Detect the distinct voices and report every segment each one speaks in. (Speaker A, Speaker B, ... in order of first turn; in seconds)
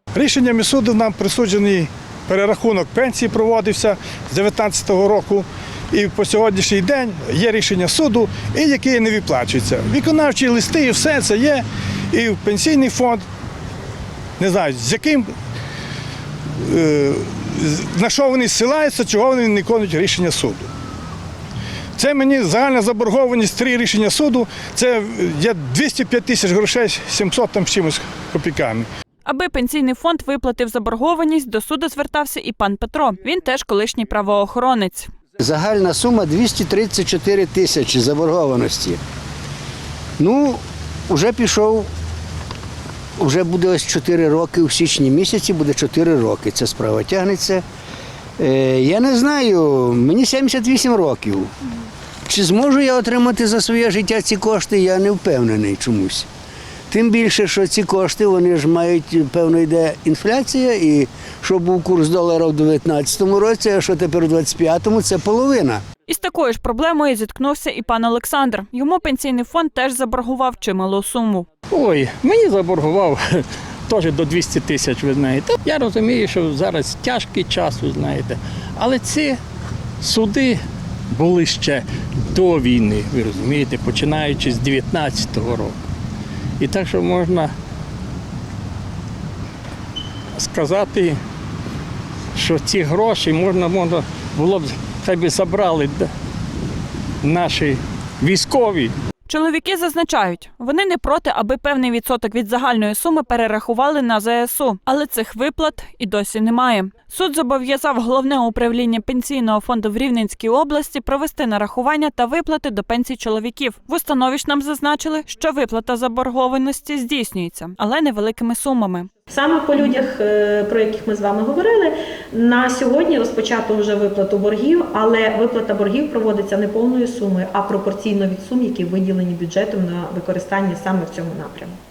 Speaker A: 0.1-13.2, 14.4-15.3, 16.6-20.7, 22.0-28.9
Speaker B: 29.2-35.1, 66.1-71.5, 99.3-119.1
Speaker C: 35.4-39.0, 40.2-41.9, 43.2-47.6, 48.4-51.5, 52.3-56.3, 56.9-65.8
Speaker D: 71.7-79.4, 80.0-85.8, 86.6-87.5, 90.4-91.2, 92.3-96.1, 97.2-98.9
Speaker E: 119.3-131.7